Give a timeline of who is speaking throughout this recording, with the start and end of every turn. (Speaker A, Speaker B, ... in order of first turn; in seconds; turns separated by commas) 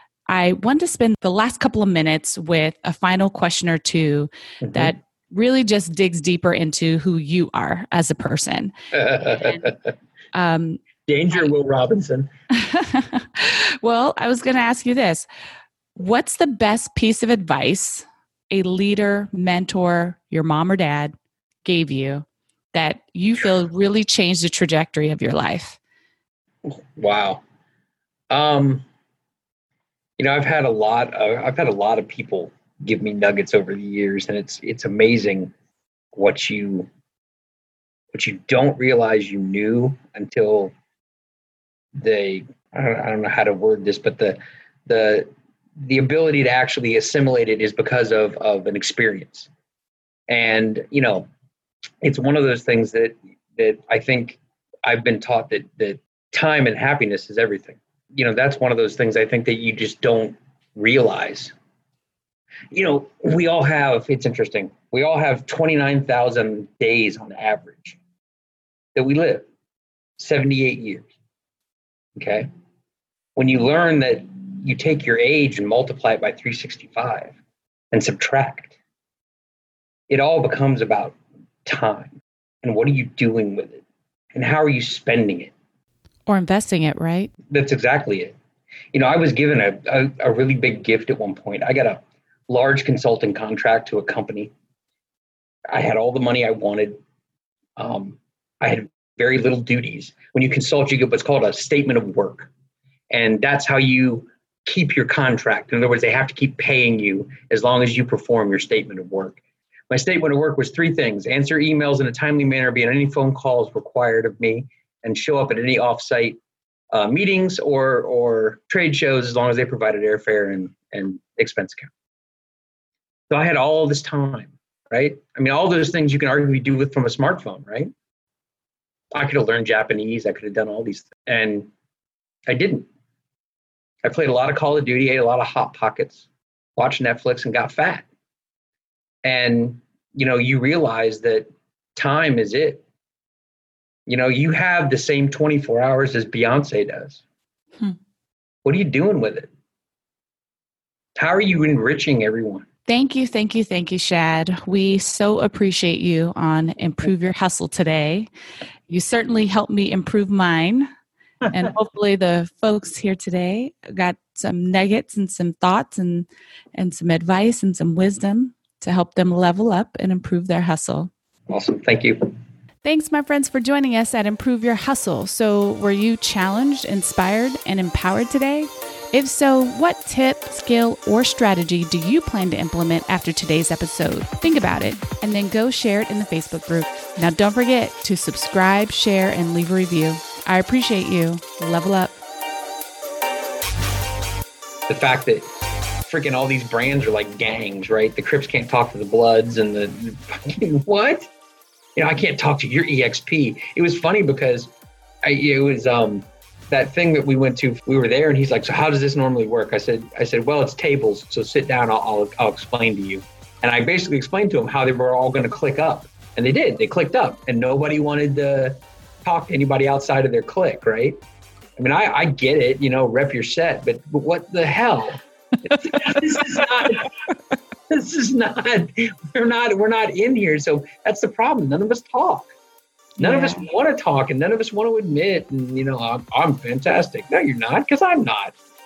Speaker A: 0.3-9.7, Speaker B: 4.6-4.9, Speaker B: 8.9-9.8, Speaker A: 10.3-10.8, Speaker B: 11.1-12.3, Speaker A: 12.5-15.3, Speaker A: 16.0-21.1, Speaker A: 21.6-25.8, Speaker B: 26.7-27.4, Speaker B: 28.3-28.9, Speaker B: 30.2-35.5, Speaker B: 36.1-36.9, Speaker B: 38.1-40.7, Speaker B: 42.0-49.5, Speaker B: 50.3-51.3, Speaker B: 52.0-61.5, Speaker B: 62.7-68.0, Speaker B: 69.0-69.5, Speaker B: 70.2-71.1, Speaker B: 72.2-72.5, Speaker B: 73.4-77.4, Speaker B: 77.9-78.8, Speaker B: 80.1-83.8, Speaker B: 84.3-85.5, Speaker A: 86.3-87.3, Speaker B: 87.5-88.3, Speaker B: 88.9-94.5, Speaker B: 95.7-97.0, Speaker B: 97.8-102.5, Speaker B: 103.1-116.4, Speaker B: 116.9-121.9, Speaker B: 123.3-127.9, Speaker B: 129.1-131.7, Speaker B: 132.5-132.9, Speaker B: 134.0-138.1, Speaker B: 139.2-142.8, Speaker B: 144.1-147.2, Speaker B: 148.6-149.5, Speaker B: 151.2-152.7, Speaker A: 152.9-158.3, Speaker A: 158.9-160.9, Speaker A: 161.5-171.1, Speaker B: 171.5-172.3, Speaker A: 172.8-192.2, Speaker B: 194.9-195.5, Speaker B: 196.1-201.3, Speaker B: 202.0-204.7, Speaker B: 205.2-221.2, Speaker B: 221.8-227.1, Speaker B: 227.9-232.5, Speaker A: 233.2-233.7, Speaker B: 233.2-238.6